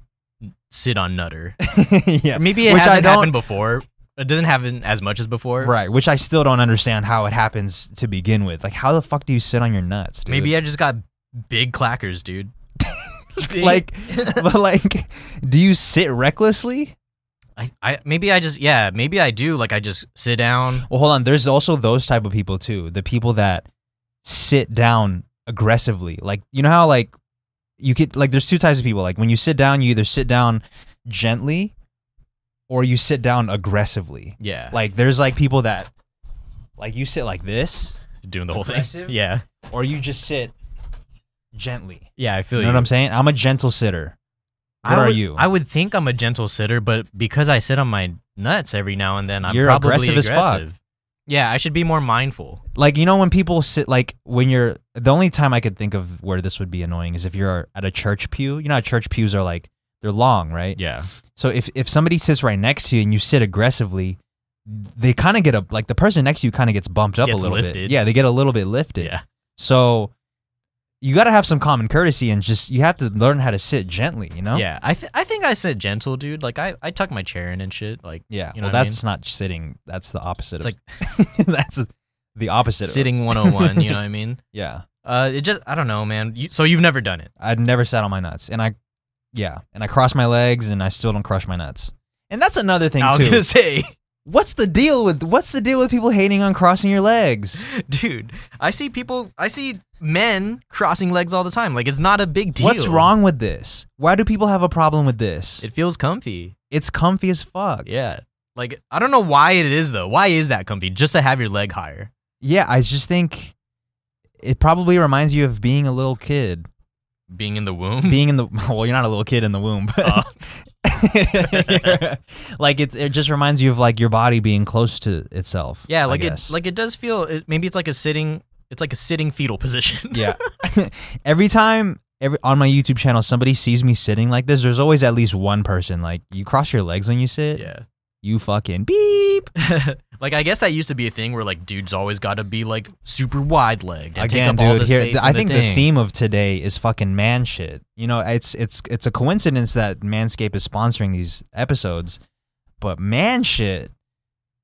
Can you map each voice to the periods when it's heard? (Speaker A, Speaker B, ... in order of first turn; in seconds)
Speaker A: 0.7-1.6, 2.3-5.7, 10.3-12.5, 13.4-14.4, 17.6-20.9, 34.4-34.8, 38.2-39.4, 42.2-42.9, 44.8-52.6, 60.8-61.1, 67.2-68.0, 74.5-79.0, 82.8-84.4, 85.0-87.3, 93.0-94.0, 97.7-103.1, 105.6-106.5, 107.9-112.1, 117.3-118.2, 120.0-120.3, 121.4-122.0, 125.9-130.4, 137.6-137.8, 139.6-145.9
Speaker B: 1.6-3.4, 5.6-10.5, 12.8-16.9, 20.9-23.7, 24.2-27.1, 27.8-31.7, 32.7-35.9, 36.8-38.0, 38.5-40.5, 41.5-44.1, 44.8-45.5, 49.5-50.6, 52.8-60.8, 61.4-70.1, 71.0-74.7, 78.3-84.0, 84.5-84.8, 87.4-88.7, 89.3-93.5, 94.3-97.7, 102.6-105.7, 106.7-107.9, 112.4-113.5, 114.4-116.7, 118.0-126.5, 130.1-137.7, 138.2-139.5, 144.2-152.2, 152.8-153.9